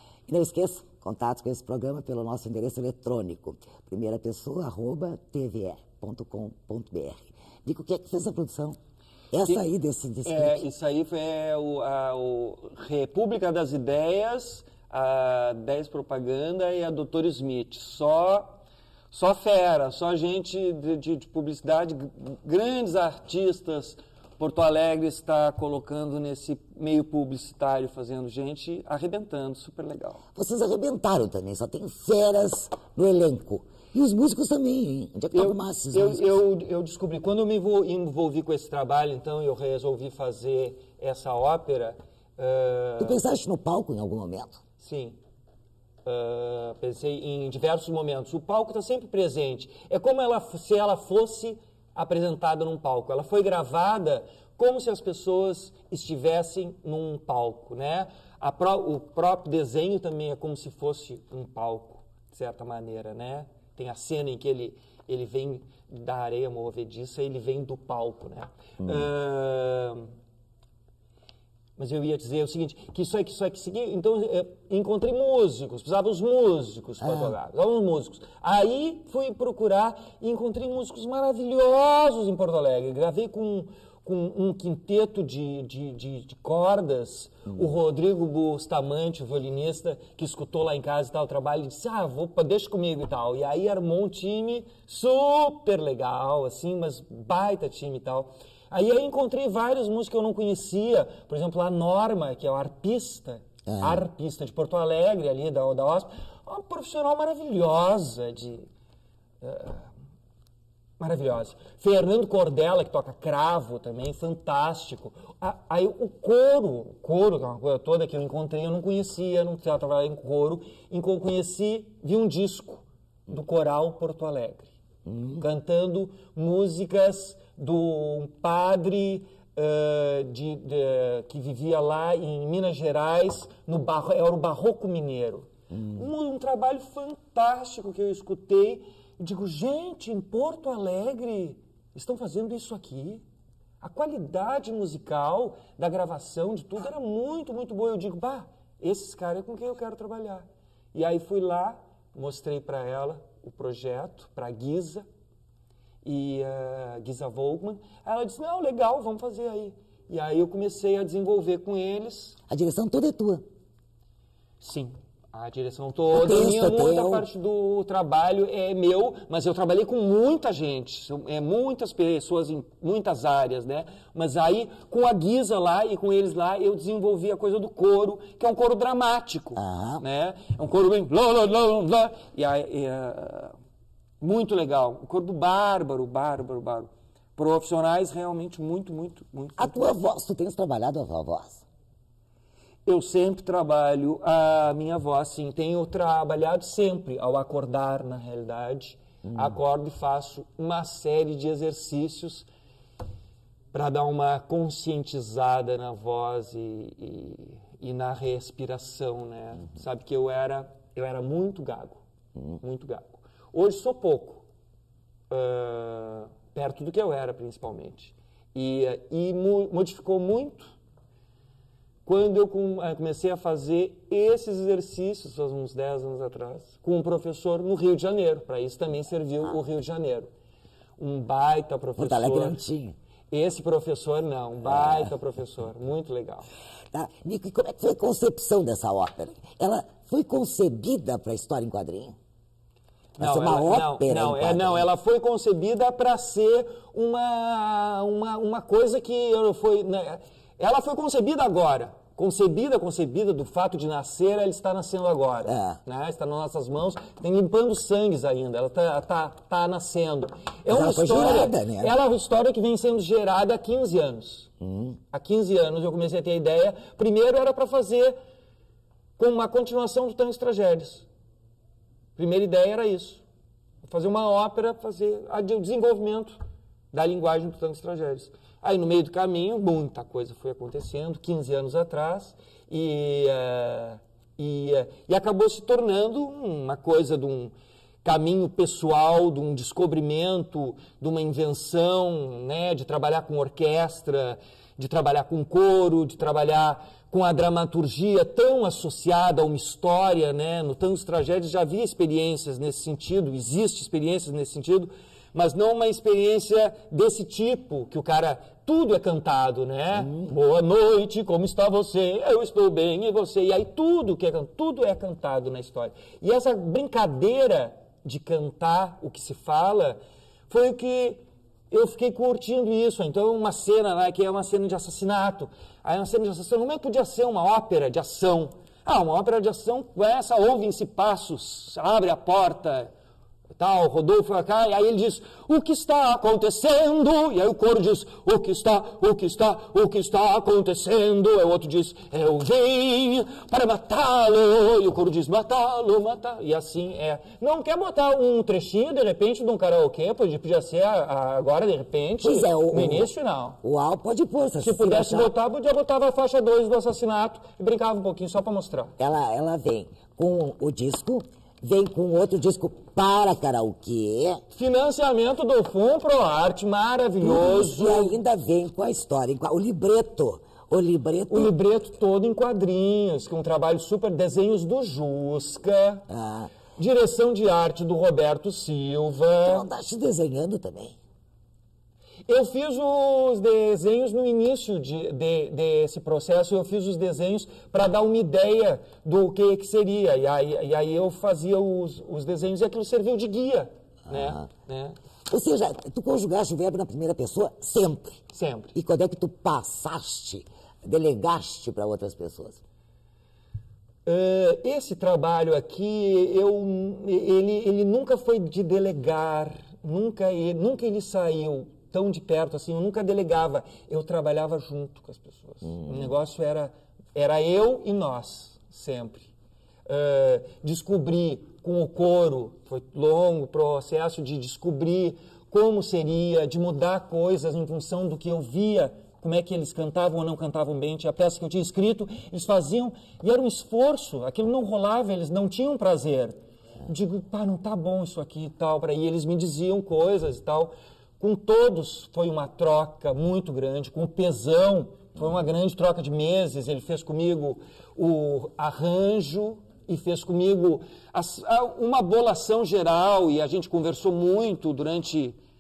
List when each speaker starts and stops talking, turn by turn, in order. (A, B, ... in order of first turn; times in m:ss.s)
0:00.3-0:08.8 A
0:09.3-0:10.6 A
0:10.2-0:18.5 B
0:19.1-0:30.2 B
0:30.3-0:36.3 A
0:35.3-0:43.2 B
0:43.0-0:44.6 A
0:44.8-0:45.2 B
0:46.0-1:10.1 B
1:11.8-1:48.7 B
1:17.0-1:17.3 A
1:43.6-1:44.0 A
1:49.4-1:49.9 B
1:51.0-2:04.7 B
2:05.0-2:05.4 A
2:05.4-2:23.2 B
2:15.7-2:16.0 A
2:23.8-2:35.0 B
2:36.0-2:42.4 B
2:42.5-2:43.4 A
2:44.6-3:03.5 B
2:46.1-2:47.2 A
2:59.5-3:00.0 A
3:04.2-3:10.0 B
3:09.6-3:11.6 A
3:12.8-3:22.5 B
3:19.2-3:19.6 A
3:23.7-3:32.0 B
3:32.6-3:34.4 B
3:35.3-3:40.7 B
3:42.0-3:50.3 B
3:51.0-3:52.6 B
3:52.0-3:52.9 A
3:53.3-3:56.5 B
3:54.6-3:55.1 A
3:56.9-4:02.1 A
4:03.2-4:24.5 B
4:03.2-4:04.9 A
4:15.4-4:15.8 A
4:20.7-4:22.0 A
4:24.6-4:25.0 A
4:25.1-4:28.1 B
4:29.2-4:31.0 B
4:32.2-4:33.2 B
4:33.8-4:36.4 B
4:36.9-4:47.5 B
4:48.0-5:32.9 B
5:33.6-5:53.6 B
5:52.2-5:55.3 A
5:54.6-5:58.9 B
5:59.0-6:04.4 A
6:04.5-6:08.2 B
6:07.2-6:11.5 A
6:11.3-6:16.0 B
6:16.1-6:16.5 A
6:16.8-6:19.7 B
6:19.4-6:21.0 A
6:22.3-6:35.0 B
6:34.1-6:34.5 A
6:35.3-6:38.2 A
6:38.3-6:38.7 B
6:38.7-6:42.6 A
6:44.0-6:59.3 B
6:59.8-7:16.3 B
7:16.8-7:35.4 B